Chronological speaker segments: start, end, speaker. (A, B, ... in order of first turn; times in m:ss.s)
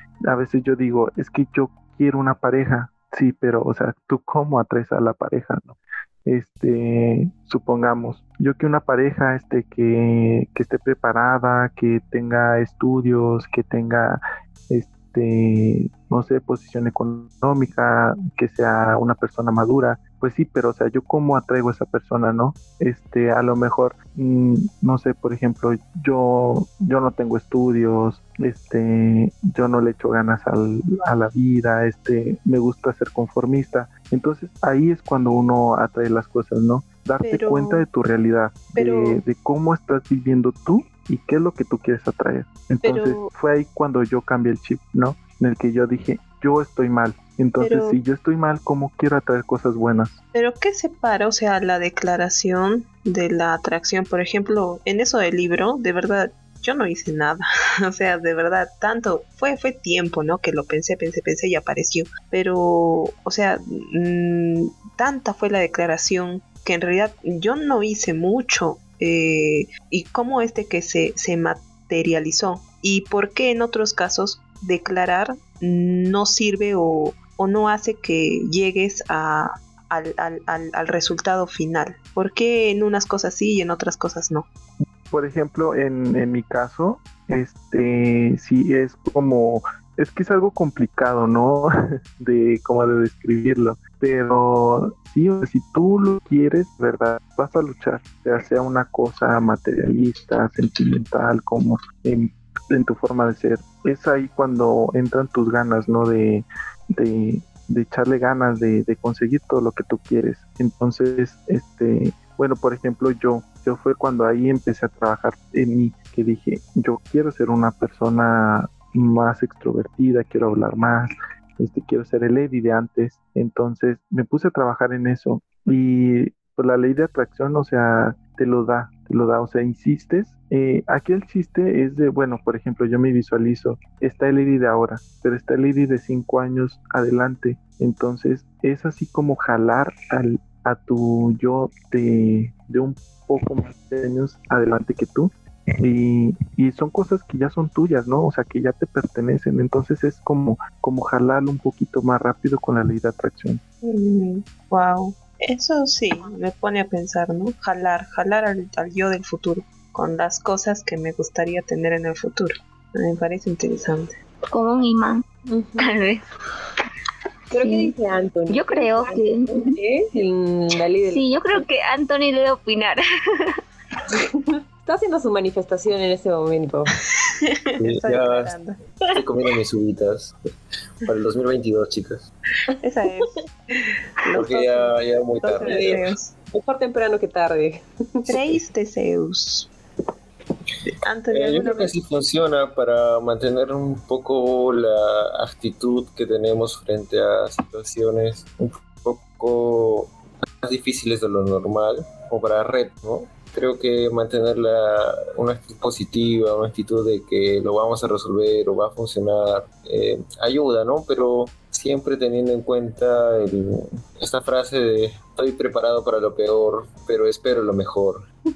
0:00.3-0:50.2 A
0:37.2-0:37.8 B
0:38.7-0:39.2 B
0:42.8-0:43.3 B
0:47.6-0:48.0 B
0:50.3-1:24.5 B
1:25.1-2:33.6 A
2:33.8-2:44.1 B
2:44.5-2:45.2 C
2:45.4-2:46.0 D
2:45.8-2:46.2 C
2:47.5-2:51.6 D
2:47.5-2:47.9 C
2:48.5-2:49.8 C
2:51.1-2:53.6 C
2:54.8-2:56.9 D
2:57.4-2:58.8 B
2:57.8-2:58.5 E
2:59.1-3:00.3 E
3:01.0-3:02.3 E
3:02.8-3:03.5 B
3:04.2-3:06.3 B
3:04.3-3:06.1 E
3:05.6-3:06.0 D
3:06.5-3:08.3 D
3:08.3-3:09.7 B
3:08.3-3:08.6 E
3:11.0-3:11.9 B
3:11.3-3:38.3 E